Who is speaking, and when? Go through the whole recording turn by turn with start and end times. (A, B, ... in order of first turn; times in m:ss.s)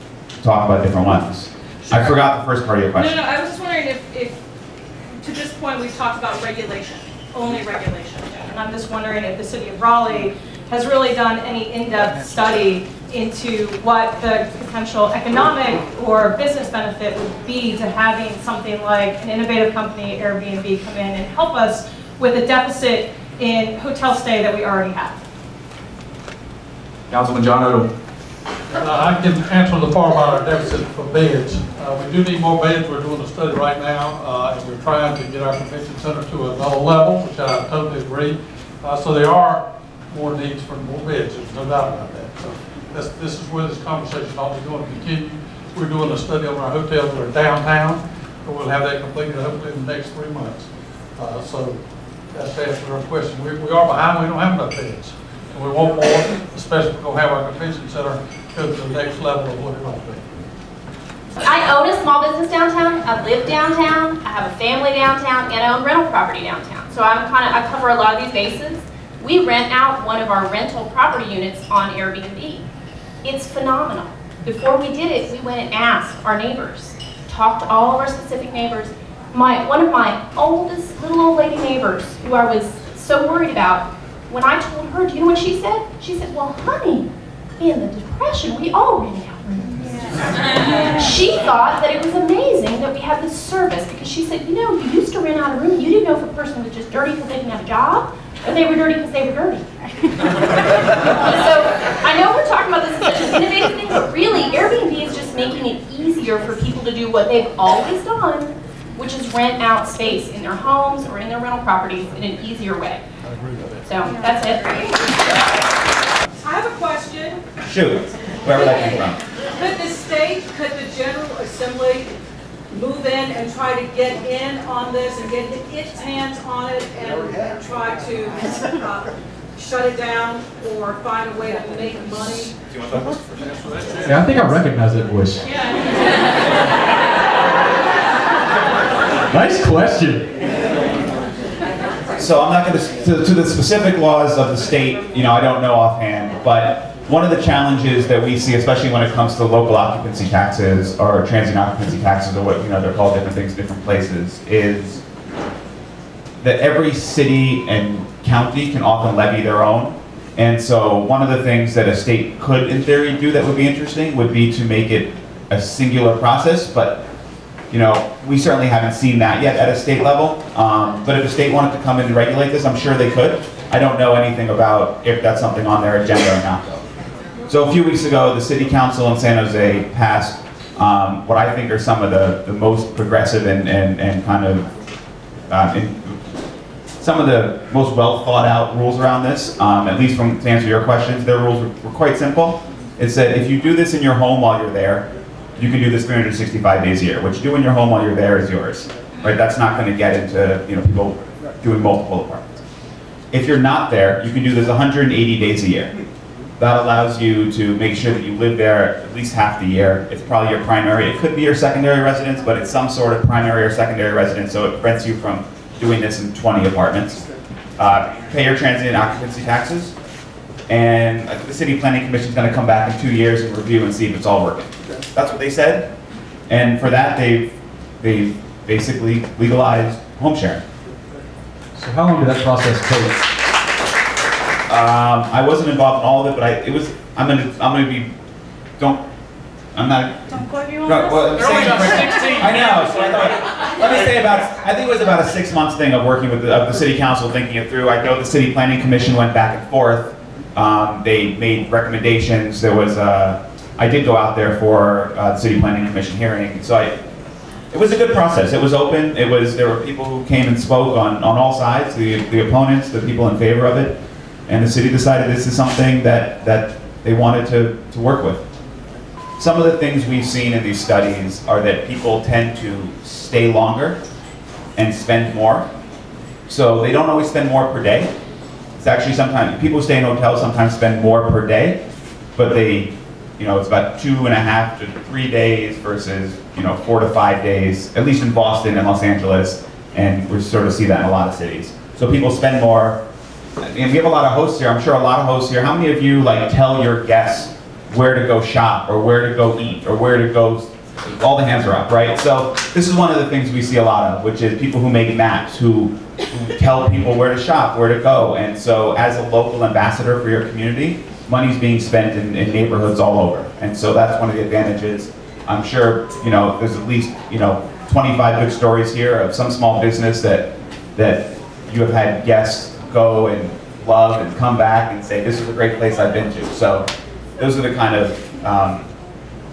0:00.4-0:03.2 A
0:05.2-0:06.4 B
0:07.3-0:25.2 B
0:27.1-0:27.9 C
0:28.8-0:50.6 D
0:51.2-0:51.8 D
0:52.4-1:00.2 D
1:01.4-1:12.6 E
1:13.2-1:27.1 E
1:27.6-1:29.9 E
1:30.5-1:39.6 E
1:41.2-1:53.0 E
1:53.8-1:55.1 E
1:56.4-1:57.4 F
1:57.6-1:59.2 A
1:58.6-1:59.0 F
1:59.6-2:02.1 F
2:02.7-2:12.6 F
2:14.0-2:15.4 C
2:19.3-2:20.3 C
2:22.2-2:35.0 A
2:36.4-2:47.0 A
2:47.7-2:56.7 A
2:57.5-3:04.7 A
3:05.5-3:06.2 A
3:07.0-3:15.1 A
3:15.6-3:22.6 A
3:23.3-3:25.9 A
3:26.6-3:37.2 A
3:37.8-3:39.9 A
3:40.7-3:45.9 A
3:46.5-3:50.6 A
3:51.8-3:53.1 C
3:54.7-3:58.1 A
3:59.7-4:00.2 A
4:00.3-4:02.5 G
4:00.8-4:16.9 A
4:17.7-4:24.0 A
4:24.5-4:28.4 A
4:29.4-4:34.0 A
4:34.8-4:35.7 A
4:36.5-4:38.1 A
4:38.8-4:41.8 A
4:42.4-4:53.0 A
4:53.6-5:26.9 A
5:27.4-5:28.9 A